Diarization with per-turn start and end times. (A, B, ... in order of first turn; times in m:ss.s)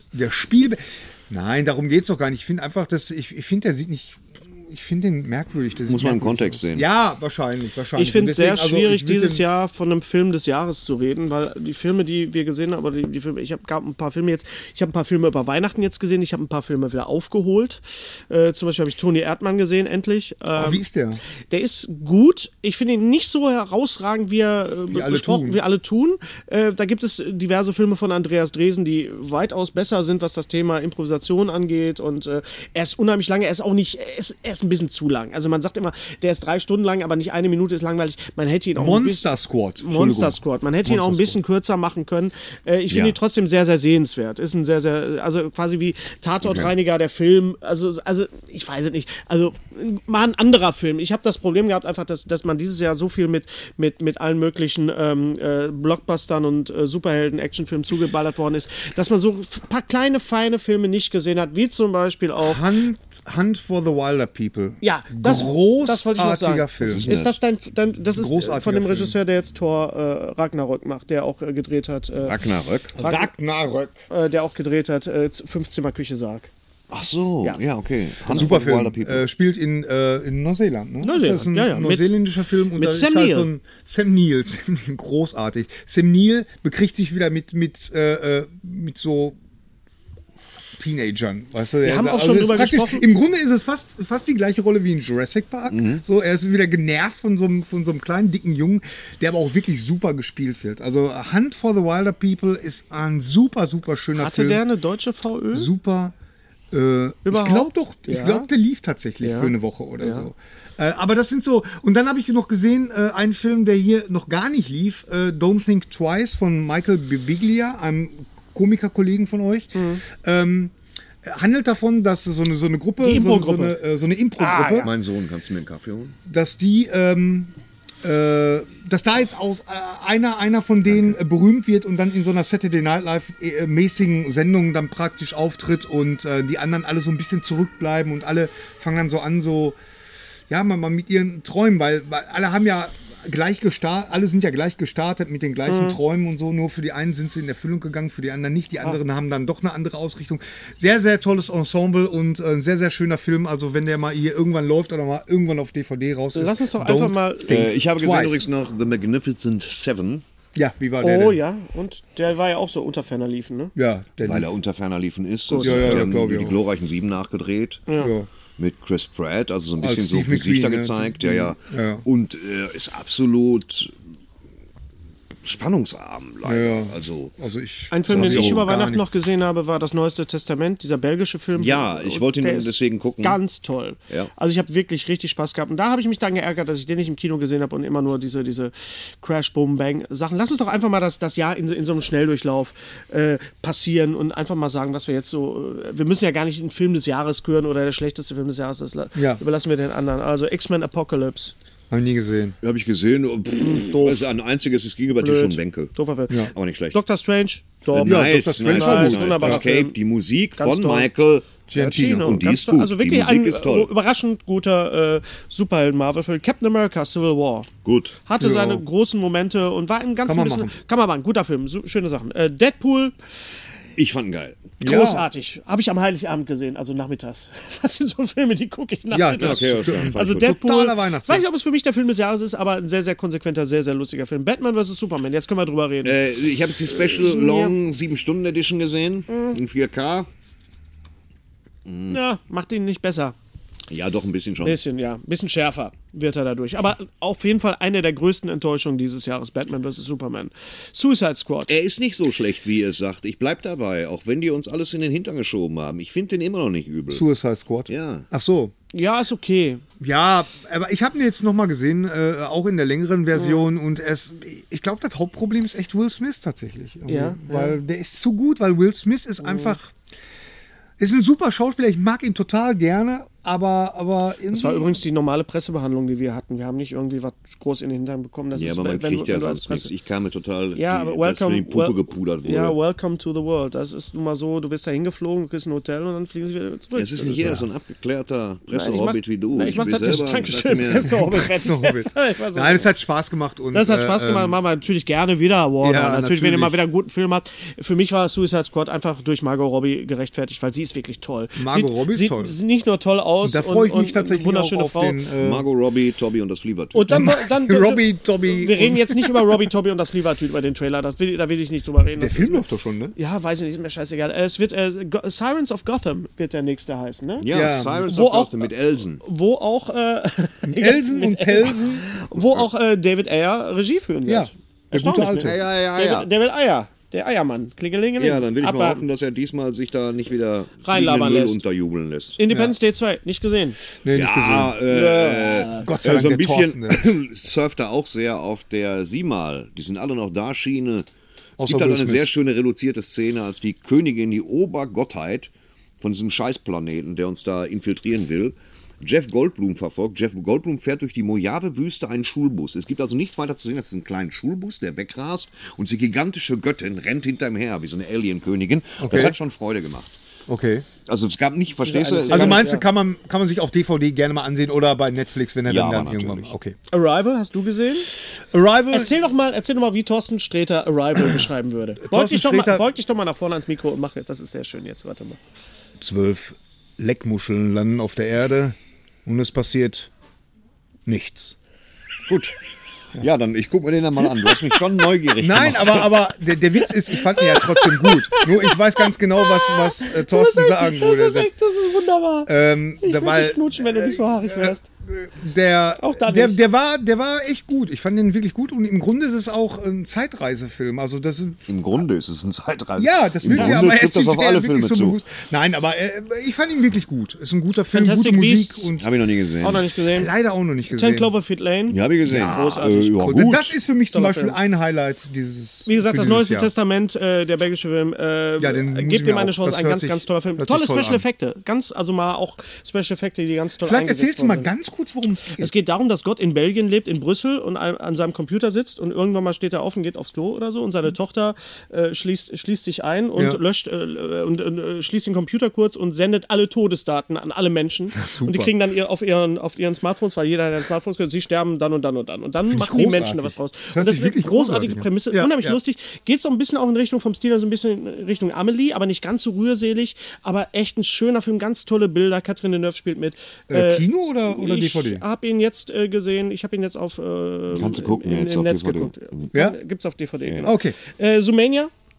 0:00.1-0:09.4 A
0:05.9-0:06.9 B
0:08.0-0:20.8 C
0:20.6-0:21.2 A
0:21.5-0:39.3 C
0:24.9-0:25.6 A
0:38.8-0:41.4 A
0:39.8-1:02.6 C
0:42.9-0:43.2 B
0:46.4-0:46.7 B
1:02.4-1:07.1 A
1:04.8-1:12.4 C
1:06.8-1:07.4 B
1:08.2-1:09.2 A
1:12.2-1:13.0 B
1:13.0-1:14.0 A
1:13.0-1:13.3 C
1:14.1-1:16.5 C
1:16.9-1:19.3 B
1:18.3-1:29.4 A
1:21.0-1:23.5 C
1:30.8-1:44.6 A
1:31.8-1:33.0 C
1:35.7-1:36.0 B
1:44.2-1:45.7 C
1:45.5-1:46.1 A
1:46.7-2:04.9 A
1:47.3-1:48.5 C
1:49.2-1:50.3 C
1:59.8-2:00.0 C
2:03.0-2:03.8 C
2:04.4-2:04.9 C
2:04.8-2:06.2 B
2:06.3-2:19.8 A
2:10.9-2:11.2 B
2:20.5-2:38.4 A
2:25.7-2:26.0 C
2:36.3-2:37.7 C
2:37.5-2:40.2 B
2:40.6-2:41.4 A
2:41.0-2:43.7 C
2:43.8-2:44.5 A
2:44.2-2:47.9 B
2:45.5-2:46.1 C
2:45.6-2:46.6 A
2:47.9-2:48.1 C
2:48.0-2:48.3 A
2:48.6-2:53.9 B
2:49.8-2:52.0 A
2:55.4-2:57.3 B
2:56.4-2:59.2 A
2:57.9-3:21.5 C
2:58.1-2:58.7 B
3:01.6-3:03.4 B
3:19.2-3:19.4 A
3:21.9-3:22.6 A
3:22.6-3:25.9 B
3:23.6-3:24.3 C
3:25.2-3:30.0 C
3:26.5-3:27.0 B
3:27.9-3:33.9 B
3:28.0-3:29.6 A
3:30.6-3:31.1 C
3:31.7-3:32.2 A
3:31.7-3:37.7 C
3:37.8-3:38.2 B
3:38.3-3:43.2 C
3:38.4-3:38.8 A
3:40.2-3:40.8 A
3:44.0-3:44.7 B
3:44.8-3:45.3 A
3:44.8-3:56.2 C
3:49.1-3:51.4 A
3:49.4-3:50.6 B
3:56.0-4:00.3 B
3:56.9-3:57.7 C
3:59.3-3:59.6 C
4:01.9-4:02.2 B
4:02.1-4:03.4 C
4:03.9-4:04.8 B
4:04.6-4:11.8 C
4:11.7-4:17.2 B
4:17.1-4:18.7 A
4:17.9-4:18.3 B
4:18.9-4:19.8 C
4:20.0-4:29.9 A
4:23.3-4:23.7 C
4:27.1-4:27.8 C
4:29.4-4:29.8 C
4:31.0-4:34.9 A
4:34.5-4:39.9 C
4:38.5-4:42.8 B
4:40.8-4:47.5 C
4:47.0-4:51.2 B
4:47.4-4:47.7 A
4:48.7-4:52.9 C
4:51.3-4:54.6 A
4:53.7-5:05.2 C
4:55.8-4:56.8 A
5:01.6-5:02.6 A
5:03.4-5:05.7 A
5:05.4-5:07.1 B
5:06.9-5:12.6 C
5:07.1-5:09.5 A
5:12.2-5:13.2 A
5:13.2-5:18.7 C
5:17.4-5:19.2 B
5:17.5-5:18.1 A
5:19.2-5:29.0 C
5:20.6-5:22.1 A
5:24.3-5:25.6 A
5:25.4-5:26.3 B
5:28.2-5:32.4 B
5:30.8-5:31.6 C
5:32.4-5:33.8 C
5:34.0-5:34.8 A
5:34.1-5:41.1 B
5:34.8-5:35.9 C
5:35.8-5:37.1 A
5:41.6-5:42.3 A
5:41.6-6:00.2 B
5:59.0-5:59.4 A
6:00.5-6:00.9 A
6:01.0-6:02.7 B
6:01.8-6:02.8 C
6:02.3-6:06.8 A
6:05.7-6:06.5 B
6:06.9-6:08.1 C
6:08.1-6:09.1 A
6:08.9-6:15.4 C
6:12.0-6:12.8 A
6:16.0-6:20.1 A
6:21.1-6:21.6 A
6:22.3-6:22.6 B
6:23.2-6:26.2 B
6:25.4-6:31.5 A
6:27.1-6:34.9 C
6:32.5-6:41.7 A
6:36.0-6:36.6 C
6:41.7-6:45.2 B
6:43.0-6:49.0 A
6:47.9-6:48.9 C
6:49.0-6:49.8 B
6:49.6-6:50.3 C
6:50.1-6:51.3 A
6:50.9-6:53.4 C
6:51.9-6:53.8 B
6:52.3-6:56.7 A
6:54.1-6:54.6 C
6:55.9-7:04.7 C
6:58.6-7:01.2 A
7:03.8-7:05.7 A
7:05.6-7:41.9 C
7:18.1-7:18.7 A
7:22.7-7:25.8 A
7:33.7-7:35.2 A
7:37.7-7:39.5 B
7:40.4-7:40.7 B
7:40.6-7:41.0 A